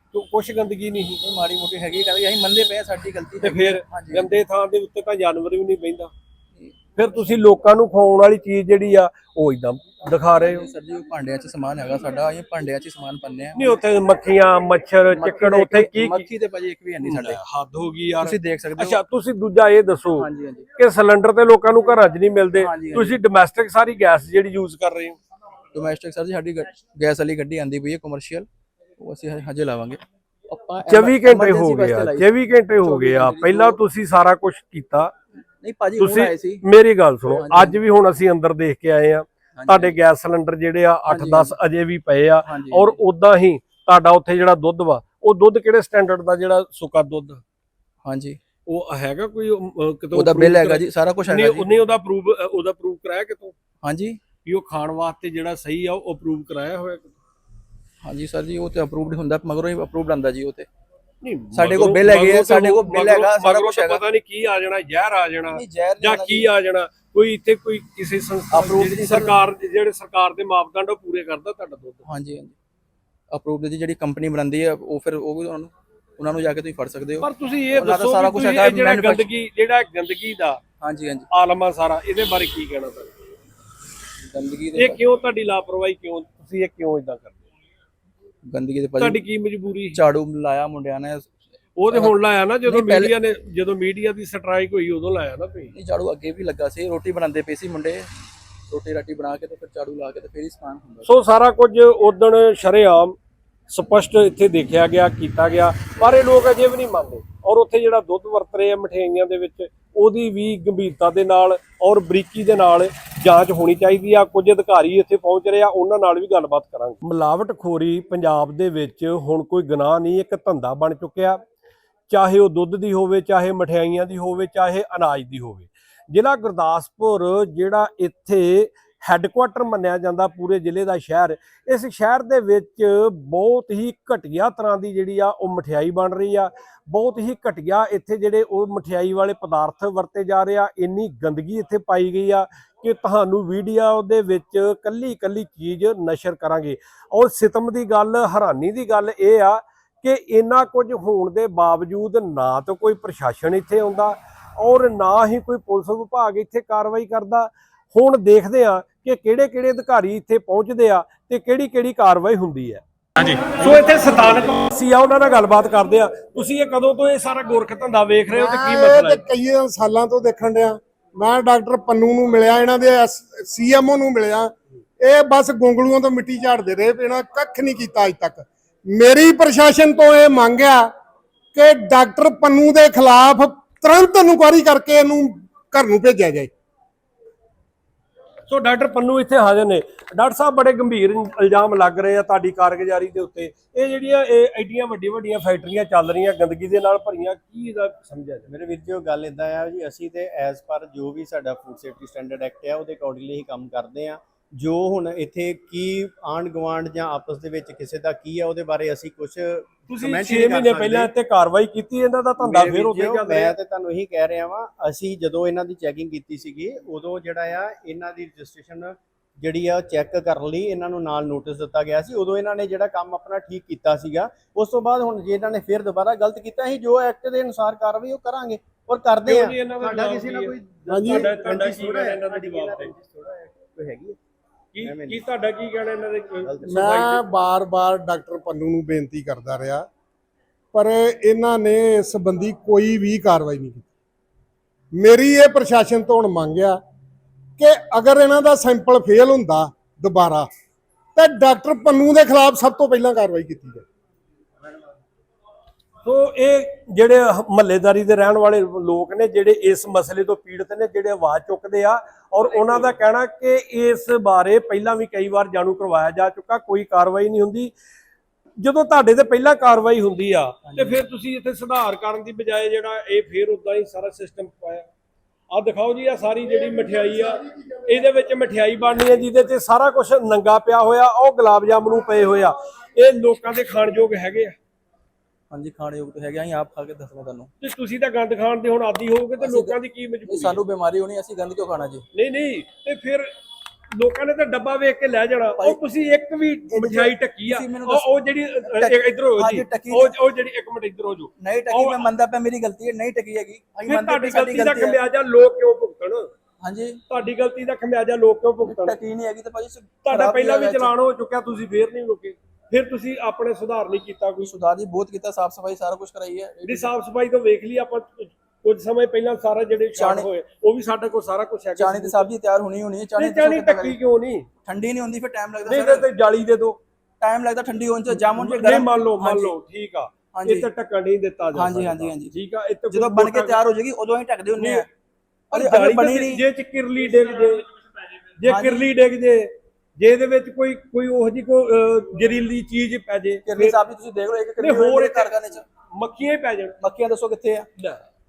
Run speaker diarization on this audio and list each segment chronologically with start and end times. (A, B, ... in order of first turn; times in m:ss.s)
0:00.1-0:01.2 A
0:01.2-0:04.3 B
0:03.4-0:06.1 A
0:07.0-0:10.7 A
0:10.3-0:13.8 B
0:13.6-0:16.2 A
0:15.1-0:17.4 B
0:17.0-0:25.2 A
0:18.2-0:19.0 B
0:20.2-0:20.7 B
0:22.5-0:23.2 B
0:25.7-0:28.5 B
0:29.0-0:33.8 B
0:30.9-0:35.1 A
0:35.6-0:36.6 B
0:36.0-0:47.4 A
0:37.2-0:37.8 B
0:39.5-0:40.0 B
0:41.1-0:41.5 B
0:42.4-0:43.0 B
0:48.0-0:48.4 B
0:48.7-0:53.5 A
0:50.1-0:51.7 B
0:53.8-0:54.2 B
0:54.4-0:57.1 A
0:58.0-1:00.7 B
1:01.2-1:12.0 A
1:01.5-1:04.0 B
1:05.5-1:06.5 B
1:08.5-1:09.4 B
1:12.0-1:12.6 B
1:13.3-1:19.3 B
1:17.2-1:20.6 A
1:20.8-1:21.3 B
1:21.3-1:23.1 A
1:24.2-1:25.0 B
1:24.8-1:27.4 A
1:28.5-1:29.2 B
1:29.0-1:30.0 A
1:29.9-1:31.3 B
1:31.8-1:35.7 A
1:31.9-1:33.1 B
1:35.7-1:38.1 B
1:38.7-1:41.1 B
1:41.0-1:43.2 A
1:43.7-2:01.4 A
2:02.1-2:49.2 A
2:48.3-3:00.8 C
3:01.5-3:06.5 C
3:08.5-3:18.5 A
3:18.5-3:31.1 D
3:29.9-3:33.5 A
3:32.4-3:54.2 D
3:49.2-3:52.9 A
3:50.9-3:51.3 C
3:54.7-3:57.2 A
3:54.8-3:55.2 D
3:56.7-3:59.8 C
4:00.7-4:03.9 C
4:05.0-4:06.8 C
4:07.6-4:10.5 C
4:11.2-4:13.8 C
4:16.0-4:27.7 A
4:28.6-4:34.9 A
4:30.6-4:31.0 B
4:35.5-4:44.5 A
4:45.5-4:47.5 B
4:47.6-4:50.6 A
4:49.4-4:52.0 B
4:52.1-4:53.2 A
4:54.0-5:02.0 A
4:56.7-5:00.1 B
5:01.4-5:05.0 B
5:03.9-5:06.3 A
5:06.6-5:07.0 B
5:07.1-5:09.0 A
5:08.6-5:10.9 B
5:10.0-5:14.5 A
5:14.4-5:16.9 B
5:16.6-5:22.3 A
5:20.0-5:20.3 B
5:21.8-5:24.0 B
5:23.2-5:24.5 A
5:24.6-5:26.1 B
5:25.7-5:26.8 A
5:27.2-5:29.6 B
5:28.1-5:33.6 A
5:30.3-5:30.7 B
5:31.5-5:32.3 B
5:32.9-5:34.8 B
5:34.6-5:34.8 A
5:35.5-5:36.4 B
5:35.5-5:37.6 A
5:38.4-5:43.8 A
5:38.4-5:38.9 B
5:43.4-5:45.6 B
5:44.6-5:45.4 A
5:46.0-5:46.8 A
5:46.8-5:47.7 B